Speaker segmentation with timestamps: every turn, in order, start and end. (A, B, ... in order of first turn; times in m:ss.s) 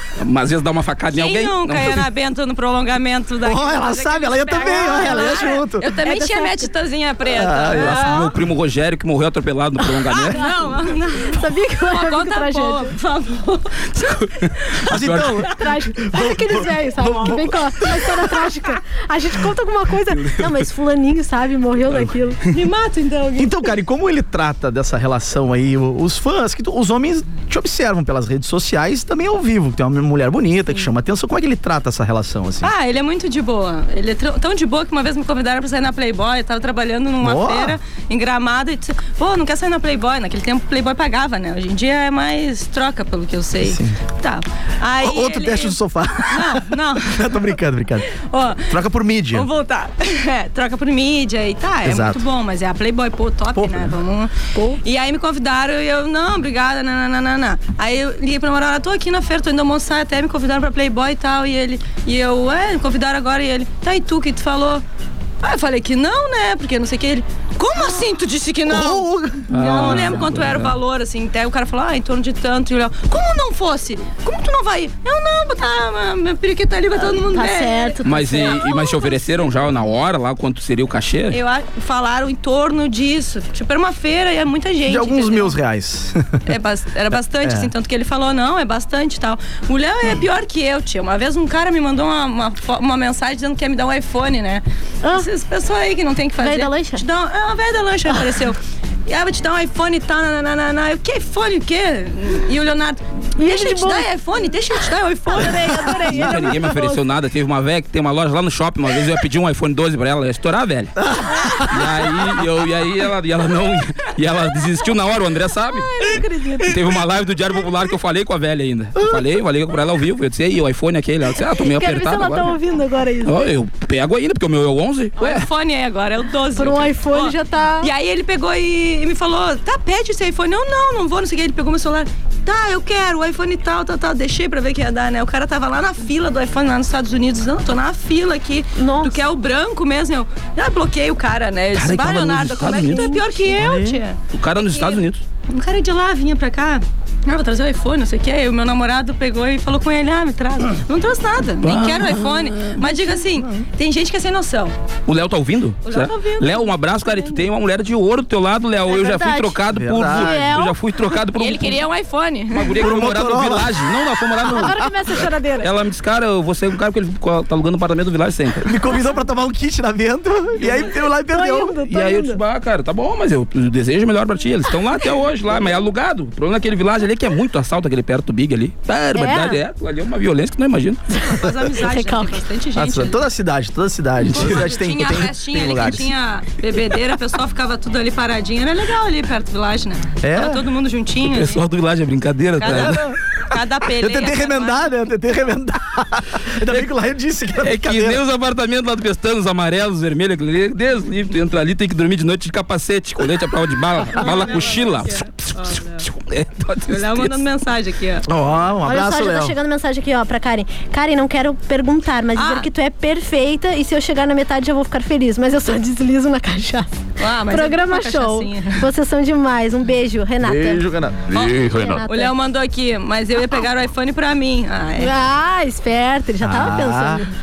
0:00.2-0:02.1 A
0:01.1-0:08.3 B
0:03.4-0:05.9 C
0:04.6-0:05.5 D
0:06.0-0:06.7 D
0:07.3-0:08.3 C
0:07.7-0:10.4 A
0:10.1-0:13.8 B
0:11.3-0:12.9 D
0:13.9-0:15.4 A
0:14.9-0:18.2 C
0:15.5-0:22.4 D
0:20.2-0:20.6 A
0:22.5-0:23.7 B
0:23.4-0:32.7 C
0:32.6-0:45.8 B
0:37.2-0:37.8 C
0:43.6-0:44.0 C
0:45.0-0:48.1 C
0:46.3-0:47.4 B
0:48.2-0:48.8 B
0:48.7-0:49.5 C
0:49.3-1:04.8 B
0:51.8-0:52.2 C
0:53.5-0:53.9 C
1:05.4-1:19.2 B
1:08.6-1:10.3 C
1:09.5-1:10.8 A
1:17.0-1:19.1 D
1:18.0-1:21.4 A
1:21.3-1:25.6 B
1:24.8-1:26.4 C
1:26.4-1:46.2 B
1:27.4-1:27.7 C
1:35.0-1:35.3 D
1:36.4-1:37.0 D
1:43.4-1:44.1 D
1:45.3-1:47.0 D
1:46.1-1:51.1 A
1:51.0-1:51.7 C
1:51.6-1:56.1 A
1:55.7-1:56.7 D
1:56.6-2:02.6 A
2:01.5-2:03.5 D
2:03.2-2:05.4 A
2:05.2-2:34.8 B
2:06.5-2:07.9 D
2:18.8-2:19.2 D
2:21.7-2:23.2 A
2:22.9-2:23.2 D
2:23.5-2:24.0 C
2:24.3-2:25.2 A
2:31.6-2:32.7 A
2:32.8-2:33.2 D
2:35.1-2:41.8 A
2:35.8-2:37.4 B
2:38.9-2:40.8 D
2:39.7-2:40.5 C
2:41.4-2:42.9 B
2:42.5-2:44.8 A
2:42.8-2:44.9 C
2:44.5-2:45.7 D
2:45.6-2:48.7 A
2:48.6-2:51.8 C
2:50.6-2:50.8 A
2:51.3-2:52.4 D
2:51.8-3:01.0 A
2:59.1-2:59.6 D
3:01.2-3:03.2 B
3:01.8-3:02.4 D
3:02.7-3:06.1 C
3:04.2-3:04.6 A
3:04.3-3:11.6 B
3:10.2-3:10.6 C
3:11.2-3:13.0 A
3:12.6-3:14.9 B
3:12.6-3:13.2 C
3:14.0-3:18.2 C
3:17.6-3:27.4 A
3:24.2-3:26.0 B
3:26.9-3:28.2 B
3:28.2-3:29.5 C
3:28.8-3:36.9 D
3:32.4-3:32.7 B
3:37.2-3:38.9 B
3:37.5-3:40.8 D
3:40.4-3:42.0 C
3:41.3-3:45.1 B
3:41.7-3:42.3 D
3:45.0-3:47.3 D
3:46.4-3:47.2 C